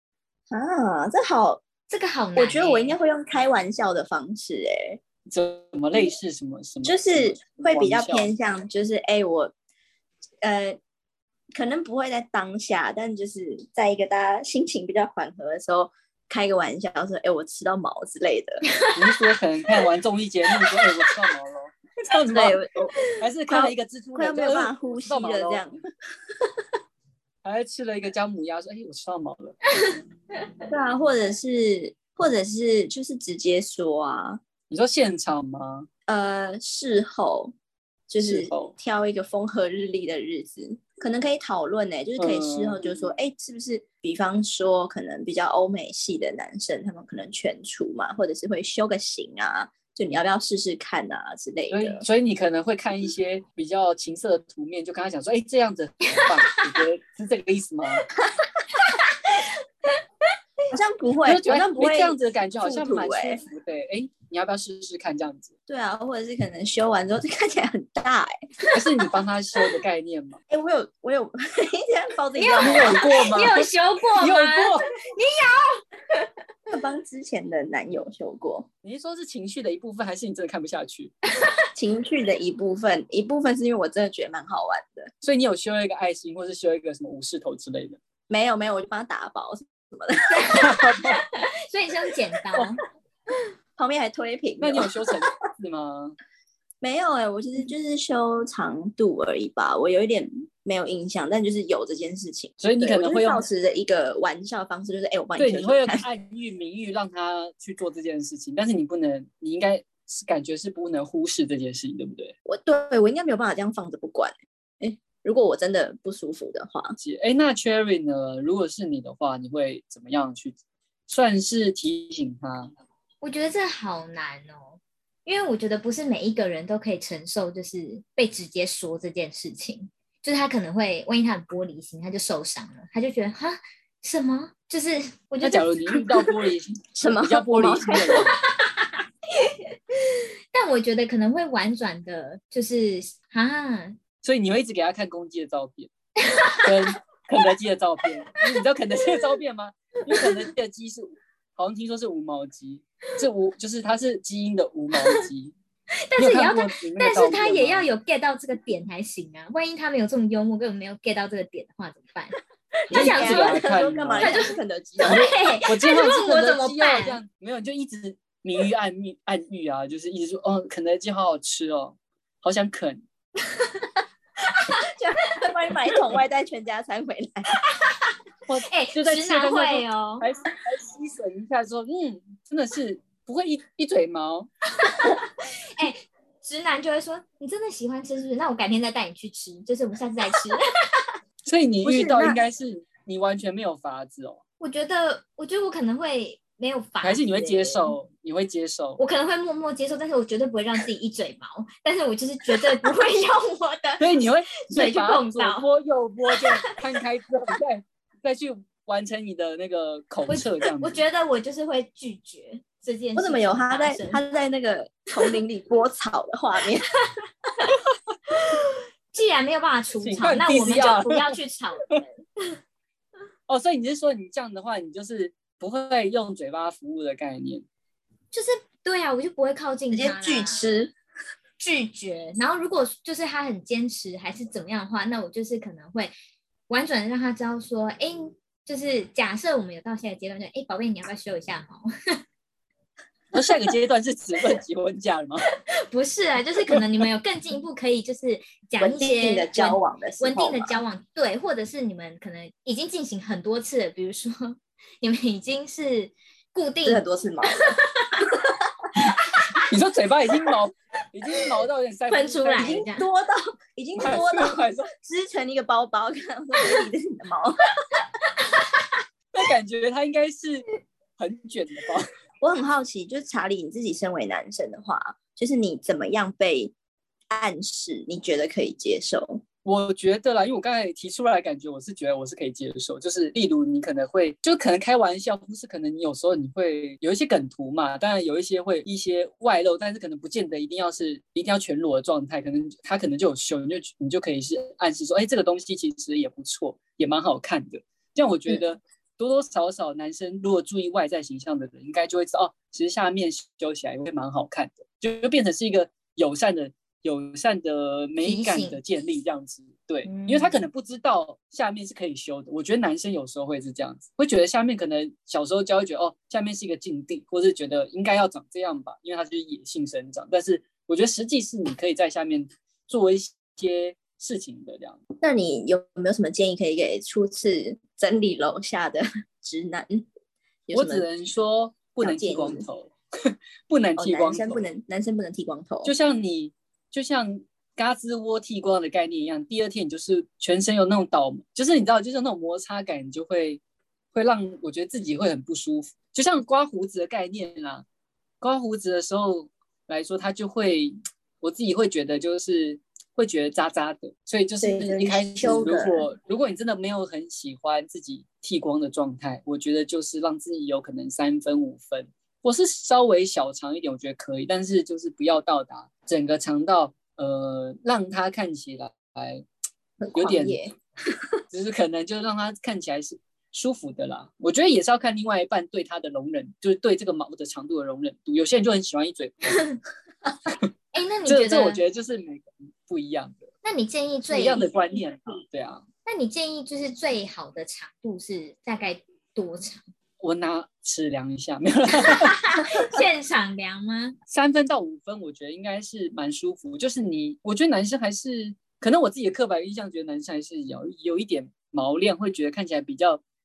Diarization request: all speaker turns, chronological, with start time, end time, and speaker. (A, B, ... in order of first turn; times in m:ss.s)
0:00.5-0:01.6 A
0:01.9-0:03.0 B
0:02.4-0:05.0 A
0:05.3-0:08.3 C
0:06.8-0:09.5 A
0:10.4-0:10.8 A
0:11.5-0:18.6 A
0:18.7-0:19.0 B
0:18.9-0:22.6 C
0:22.2-0:22.9 A
0:23.2-0:25.7 C
0:23.5-0:25.8 A
0:27.4-0:29.6 C
0:30.7-0:34.4 A
0:34.7-0:35.9 C
0:36.1-0:37.5 A
0:38.1-0:52.0 A
0:38.2-0:38.7 C
0:42.2-0:42.8 C
0:51.7-0:58.0 C
0:56.1-0:56.6 B
0:58.7-0:59.3 B
1:00.7-1:03.4 A
1:01.2-1:05.5 C
1:05.7-1:08.3 A
1:08.7-1:10.4 C
1:10.5-1:13.0 A
1:12.4-1:16.3 B
1:12.6-1:14.9 C
1:16.7-1:18.7 A
1:18.8-1:21.1 C
1:21.7-1:25.1 A
1:25.2-1:28.0 C
1:28.3-1:30.6 A
1:30.3-1:32.8 B
1:30.6-1:31.2 C
1:33.8-1:35.3 A
1:34.6-1:36.2 C
1:36.8-1:46.0 A
1:42.6-1:43.4 C
1:45.4-1:52.3 C
1:52.4-1:57.0 A
1:57.0-2:00.6 C
2:01.1-2:02.7 C
2:03.2-2:16.3 B
2:15.4-2:18.3 C
2:17.0-2:18.2 A
2:18.6-2:24.0 B
2:24.2-2:25.9 C
2:26.2-2:26.9 B
2:26.6-2:35.5 C
2:30.1-2:30.5 B
2:36.1-2:47.2 B
2:36.2-2:37.9 C
2:42.9-2:44.4 C
2:42.9-2:45.2 A
2:45.0-2:53.0 C
2:53.4-2:53.9 B
2:54.8-2:57.6 A
2:57.7-2:58.1 B
2:58.5-3:04.5 C
2:58.7-3:00.3 B
3:04.8-3:11.1 B
3:11.4-3:14.4 C
3:11.8-3:12.4 A
3:14.6-3:17.9 B
3:17.0-3:19.0 C
3:19.0-3:25.6 B
3:24.0-3:31.0 C
3:26.4-3:26.8 B
3:30.3-3:34.2 B
3:33.2-3:36.9 A
3:38.3-3:42.5 B
3:40.0-3:41.3 C
3:43.5-3:47.6 C
3:48.3-3:50.7 B
3:49.9-3:50.9 A
3:51.6-3:56.1 B
3:56.7-4:01.9 B
4:03.3-4:05.4 C
4:05.8-4:18.2 B
4:08.8-4:10.8 A
4:16.8-4:17.8 A
4:19.1-4:19.6 B
4:19.6-4:22.8 C
4:22.1-4:23.0 B
4:22.6-4:27.6 A
4:24.0-4:24.9 C
4:28.4-4:28.7 B
4:29.3-4:30.6 C
4:31.2-4:32.1 C
4:32.4-4:36.7 A
4:37.3-4:39.4 A
4:39.6-5:25.0 C
5:08.2-5:08.8 B
5:10.0-5:10.6 B
5:25.2-5:30.0 A
5:30.7-5:31.0 A
5:30.7-5:34.6 C
5:32.0-5:32.6 A
5:34.0-5:35.9 A
5:35.8-5:43.6 C
5:44.1-5:47.8 C
5:48.4-6:09.4 C
5:54.6-5:56.0 A
6:10.0-6:10.7 A
6:10.1-6:10.6 C
6:11.5-6:19.6 C
6:19.5-6:19.8 B
6:20.9-6:21.8 B
6:21.2-6:23.5 C
6:23.6-6:25.0 B
6:24.3-6:25.8 C
6:26.0-6:29.8 B
6:30.2-6:32.4 C
6:32.0-6:34.2 B
6:34.3-6:43.2 C